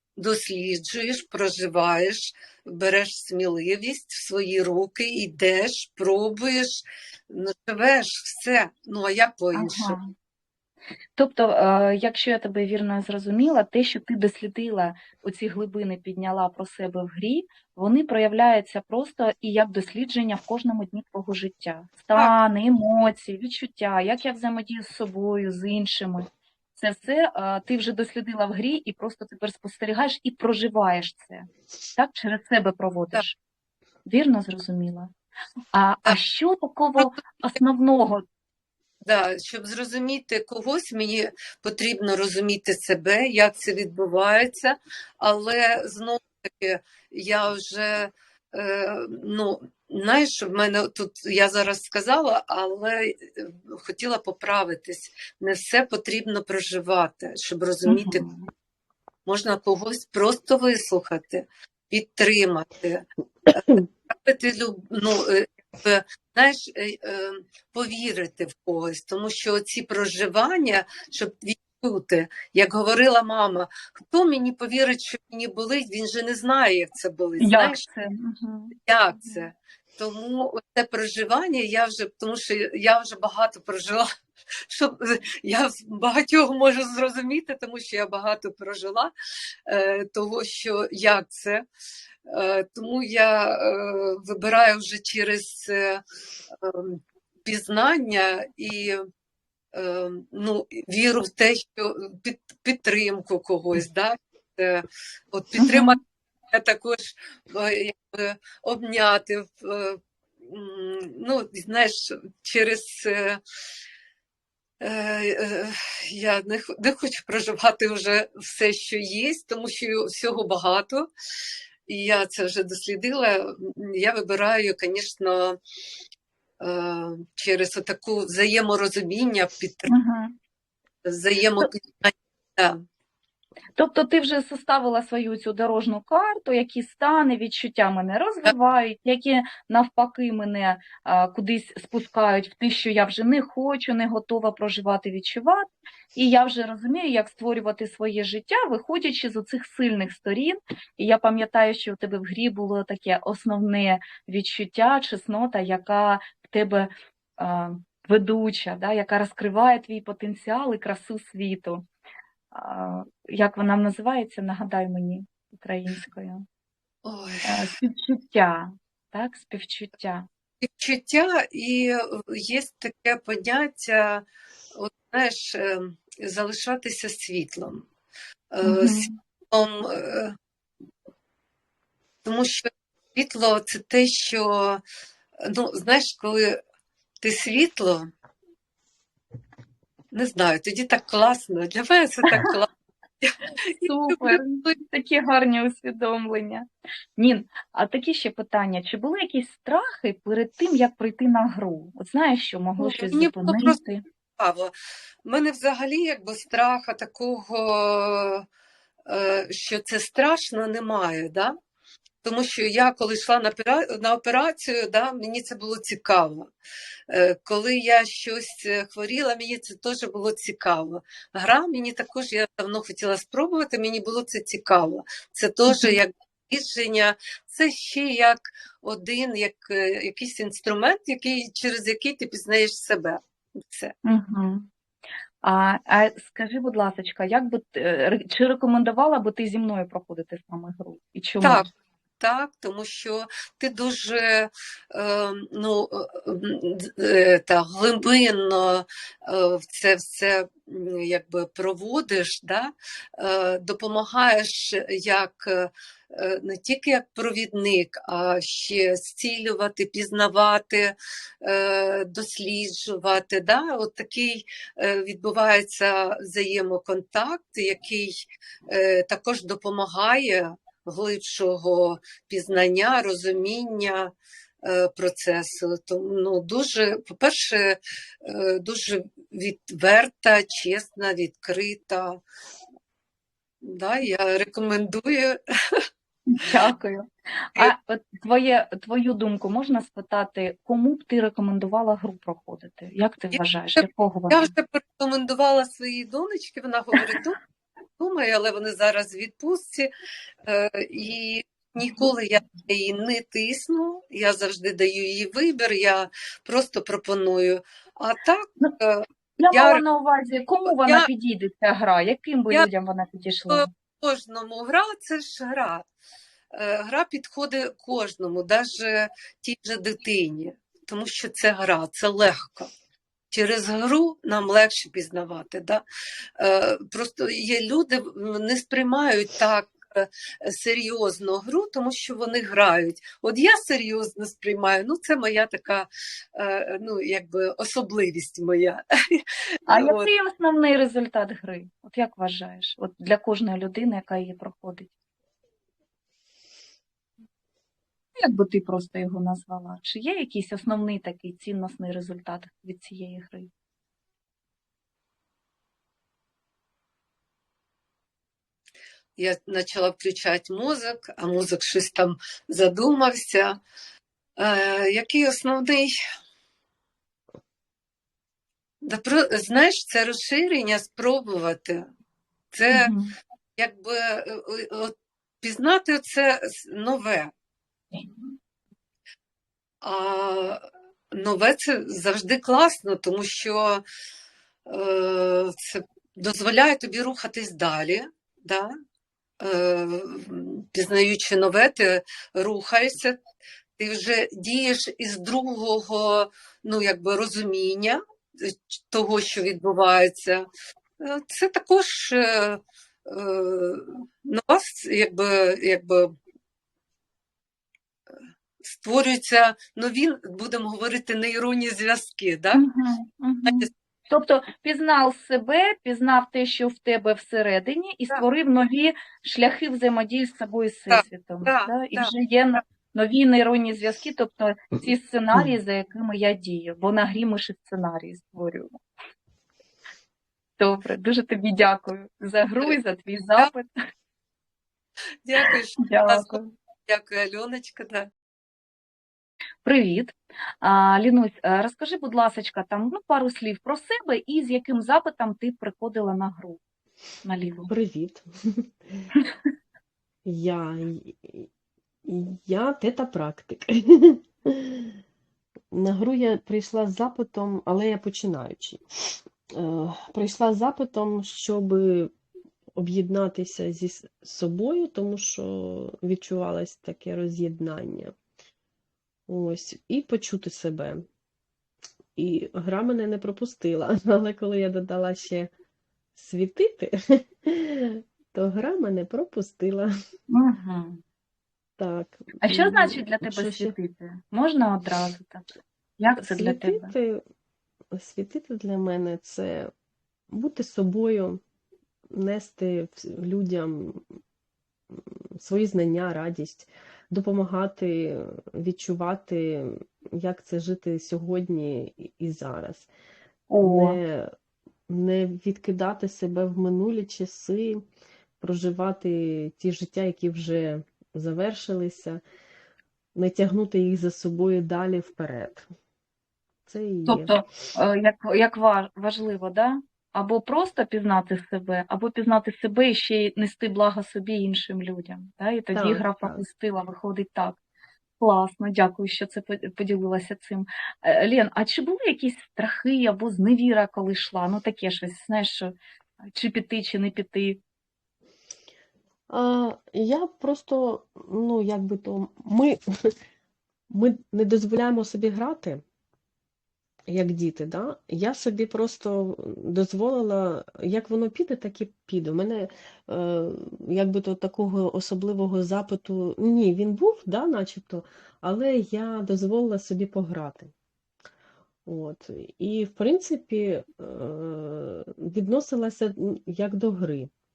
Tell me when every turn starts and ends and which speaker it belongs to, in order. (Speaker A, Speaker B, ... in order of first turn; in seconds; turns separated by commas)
Speaker A: 0.2-9.9, Speaker B: 9.5-10.1, Speaker B: 11.2-33.4, Speaker B: 34.1-35.1, Speaker B: 35.7-38.2, Speaker A: 39.0-58.3, Speaker B: 57.9-58.5, Speaker A: 59.3-77.8, Speaker B: 77.4-79.4, Speaker A: 78.9-84.1, Speaker A: 84.7-89.1, Speaker A: 89.7-91.6, Speaker A: 92.3-96.0, Speaker A: 96.5-99.0, Speaker A: 99.7-106.0, Speaker B: 105.6-105.9, Speaker A: 106.5-113.4, Speaker A: 114.8-121.1, Speaker A: 121.9-125.6, Speaker A: 126.6-129.9, Speaker B: 129.9-130.3, Speaker A: 131.0-132.8, Speaker B: 133.8-161.8, Speaker B: 162.5-166.4, Speaker A: 167.0-167.7, Speaker B: 167.4-170.3, Speaker A: 170.6-177.9, Speaker A: 178.5-180.4, Speaker B: 178.6-179.1, Speaker A: 182.2-184.8, Speaker A: 185.4-186.6, Speaker A: 187.2-188.1, Speaker A: 190.1-192.7, Speaker A: 193.2-194.7, Speaker B: 193.8-196.7, Speaker B: 197.2-204.0, Speaker A: 202.8-203.8, Speaker A: 204.4-204.7, Speaker A: 205.2-208.5, Speaker A: 209.1-211.6, Speaker A: 212.2-216.5, Speaker A: 217.1-233.9, Speaker B: 225.7-226.0, Speaker B: 234.0-234.7, Speaker B: 235.4-241.7, Speaker A: 241.4-241.7, Speaker A: 242.2-282.2, Speaker A: 283.6-285.8, Speaker B: 286.3-294.5, Speaker A: 293.3-297.4, Speaker A: 298.0-299.9, Speaker A: 300.4-309.8, Speaker B: 309.4-313.7, Speaker A: 310.6-311.1, Speaker A: 313.5-315.9, Speaker A: 316.5-322.7, Speaker A: 323.3-325.8, Speaker A: 326.4-340.1, Speaker B: 339.7-344.9, Speaker B: 348.2-353.5, Speaker A: 359.2-363.6, Speaker A: 364.4-366.0, Speaker A: 368.8-371.9, Speaker A: 372.5-372.9, Speaker B: 372.7-373.1, Speaker A: 373.6-377.3, Speaker A: 379.8-383.8, Speaker A: 384.7-388.7, Speaker A: 389.4-393.2, Speaker A: 393.8-400.5, Speaker A: 401.0-406.1, Speaker A: 408.6-412.6, Speaker B: 412.5-428.8, Speaker A: 420.9-422.1, Speaker B: 430.6-433.7, Speaker A: 435.2-438.1, Speaker B: 435.4-436.5, Speaker B: 439.6-446.6, Speaker B: 447.2-447.7, Speaker C: 447.7-449.1, Speaker C: 450.2-451.5, Speaker C: 452.1-455.0, Speaker C: 455.7-462.1, Speaker C: 462.8-468.1, Speaker C: 469.3-471.1, Speaker C: 472.2-475.5, Speaker C: 476.1-479.9, Speaker B: 480.3-481.0, Speaker C: 481.8-483.8, Speaker B: 482.4-486.9, Speaker C: 486.2-487.2, Speaker C: 487.9-489.7, Speaker C: 490.3-491.4, Speaker C: 492.1-494.0, Speaker C: 494.9-502.9, Speaker B: 503.5-504.0, Speaker C: 503.6-504.3, Speaker C: 504.9-507.8, Speaker C: 508.4-512.2, Speaker C: 513.1-515.7, Speaker C: 516.7-517.3, Speaker B: 517.1-527.6, Speaker C: 525.7-526.4, Speaker B: 528.2-535.7, Speaker B: 536.3-537.6, Speaker C: 539.3-542.8, Speaker C: 543.9-545.8, Speaker C: 547.1-560.7, Speaker C: 561.9-567.3